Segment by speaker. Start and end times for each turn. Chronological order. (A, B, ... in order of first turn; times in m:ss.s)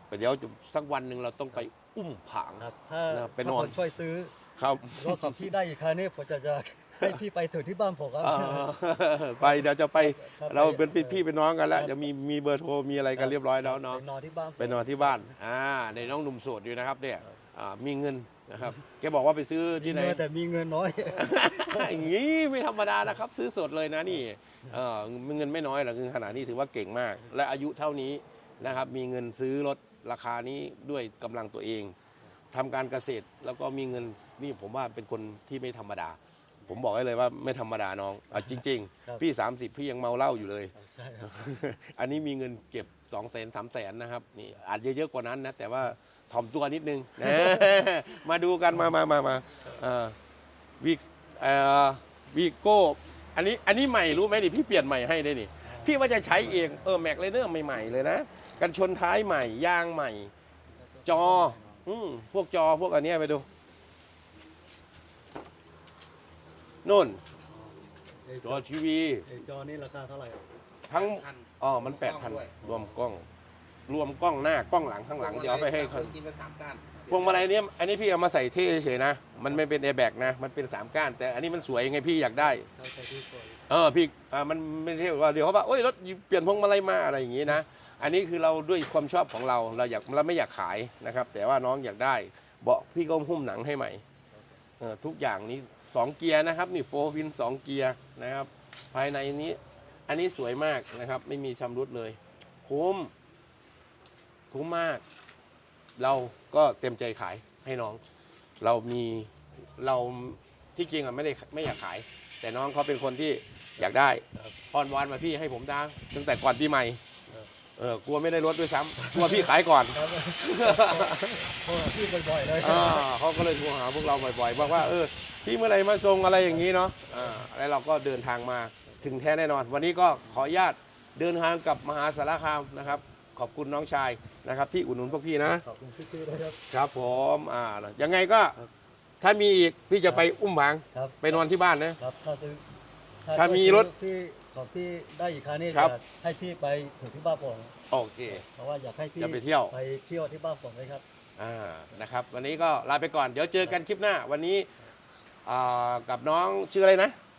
0:00.1-0:03.8 A
0:02.6-0:04.4 B
0:04.6-0:05.5 A
0:04.9-0:08.7 B
0:08.2-0:14.0 A
0:09.4-0:12.0 B
0:13.2-0:15.3 B
0:14.6-0:20.2 A
0:19.8-0:22.1 B
0:21.1-0:31.9 A
0:32.5-0:50.2 A
0:38.4-0:39.2 B
0:40.7-0:41.4 B
0:47.2-0:47.7 B
0:50.8-1:00.3 A
0:55.6-0:58.0 B
1:00.8-1:01.8 B
1:01.0-1:03.5 A
1:06.8-1:07.2 A
1:08.2-1:08.6 B
1:08.4-1:09.3 A
1:09.2-1:10.4 B
1:10.9-1:13.3 A
1:11.0-1:12.6 C
1:13.9-1:16.2 A
1:15.2-1:17.3 C
1:17.1-1:22.6 A
1:22.4-1:23.6 B
1:23.7-1:34.0 A
1:34.8-1:43.1 A
1:44.5-1:45.0 A
1:46.0-1:48.0 A
1:48.6-1:57.0 A
1:57.8-2:01.5 A
1:59.0-2:03.1 B
2:02.6-2:15.6 A
2:15.5-2:16.6 B
2:16.7-2:18.6 A
2:19.2-2:22.0 A
2:20.9-2:21.4 B
2:22.0-2:22.6 B
2:23.2-2:27.8 B
2:23.3-2:23.9 A
2:27.9-2:28.4 A
2:28.3-2:31.0 B
2:29.2-2:29.7 A
2:31.4-2:34.7 A
2:35.4-2:37.2 A